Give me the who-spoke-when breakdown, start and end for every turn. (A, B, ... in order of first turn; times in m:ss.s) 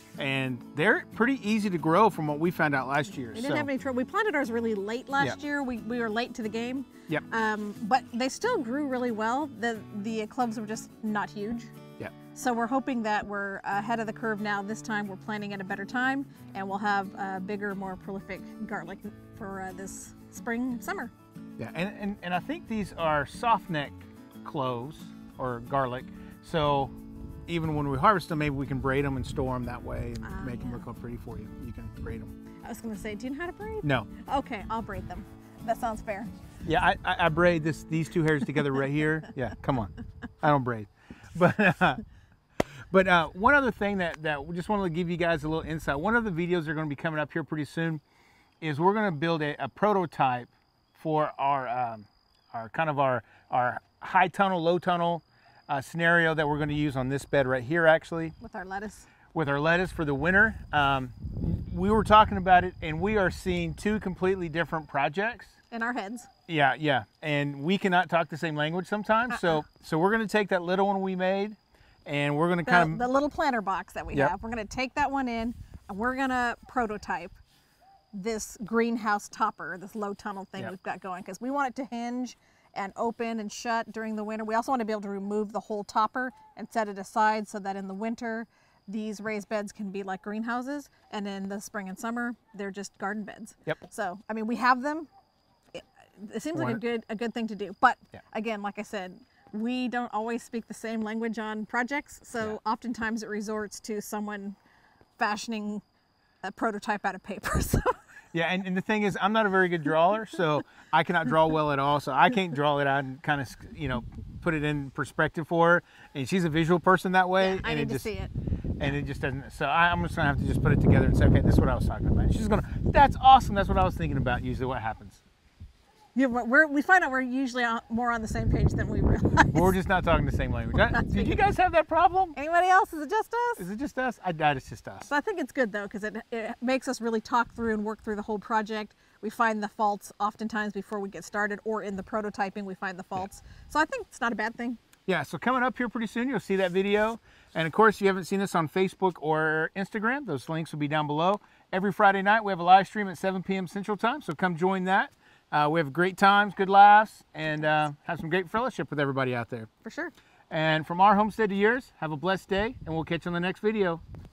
0:00.2-0:03.7 A
0:03.3-0:11.7 B
0:12.3-0:21.1 B
0:21.6-0:26.9 A
0:27.5-0:32.3 A
0:30.2-0:30.8 B
0:32.6-0:36.3 B
0:33.8-0:34.1 A
0:36.6-0:42.0 A
0:42.9-0:48.0 A
0:48.6-0:58.4 A
0:58.4-0:59.1 B
0:59.3-1:05.6 A
1:05.7-1:06.3 B
1:06.5-1:13.0 A
1:12.6-1:17.4 B
1:18.1-1:35.1 B
1:35.7-1:44.6 B
1:36.5-1:36.8 A
1:45.2-1:45.8 B
1:46.4-1:48.0 B
1:48.3-1:58.1 A
1:57.4-1:58.3 B
1:58.8-2:05.2 A
2:06.1-2:09.7 B
2:09.5-2:12.4 A
2:10.7-2:11.5 B
2:12.3-2:13.6 B
2:13.6-2:15.1 A
2:15.1-2:24.8 B
2:25.0-2:39.7 A
2:39.8-2:40.1 B
2:40.5-2:44.0 A